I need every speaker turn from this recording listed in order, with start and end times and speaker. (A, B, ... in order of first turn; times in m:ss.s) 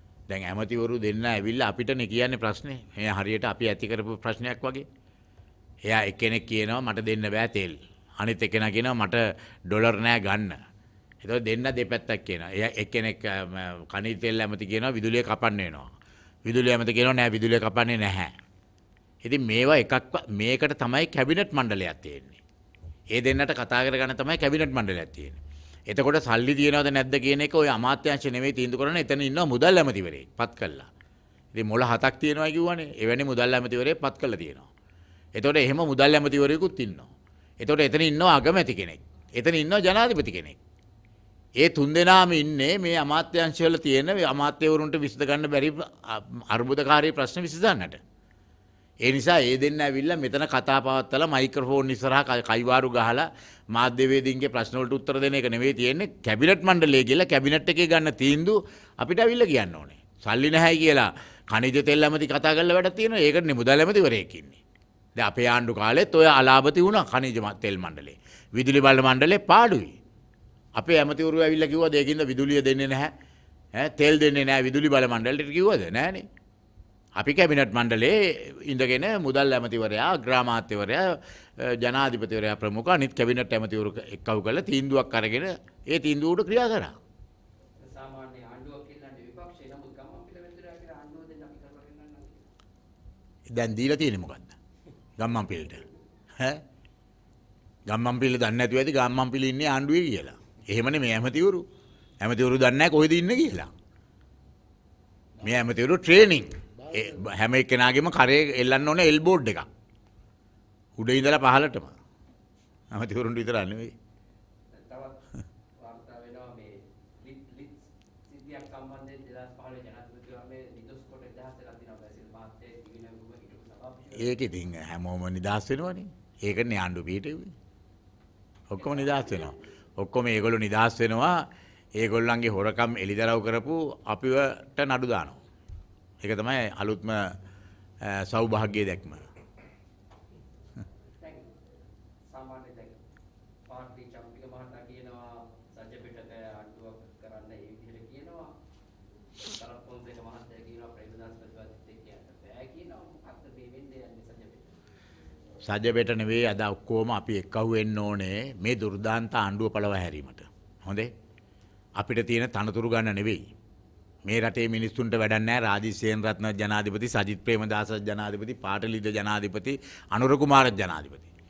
0:00.3-0:04.9 A
0:05.9-0:10.6 A
0:11.2-0:15.9 A
0:16.5-0:18.3 A
0:19.2-0:22.4 A
0:23.1-0:30.9 A
0:31.5-0:34.7 A
0:35.4-0:40.6 A
0:41.6-0:48.0 A
0:49.0-1:04.6 A
1:05.2-1:09.9 A
1:10.8-1:13.1 A
1:13.8-1:16.3 A
1:17.2-1:27.0 A
1:27.8-1:32.5 B
1:33.5-1:34.6 A
1:35.2-1:35.8 A
1:37.9-1:41.6 A
1:42.2-1:43.7 A
1:45.4-1:49.7 A
1:46.8-1:47.0 B
1:51.0-1:52.0 A
1:52.9-1:53.9 A
1:54.7-2:04.4 B
2:04.2-2:07.5 A
2:08.7-2:11.4 A
2:08.8-2:09.6 B
2:12.0-2:15.4 A
2:16.2-2:17.3 A
2:18.0-2:19.2 A
2:21.2-2:21.5 B
2:22.3-2:23.0 B
2:23.7-2:28.5 B
2:29.5-2:34.8 B
2:35.6-2:41.1 A
2:42.0-2:43.4 A
2:44.3-2:51.3 A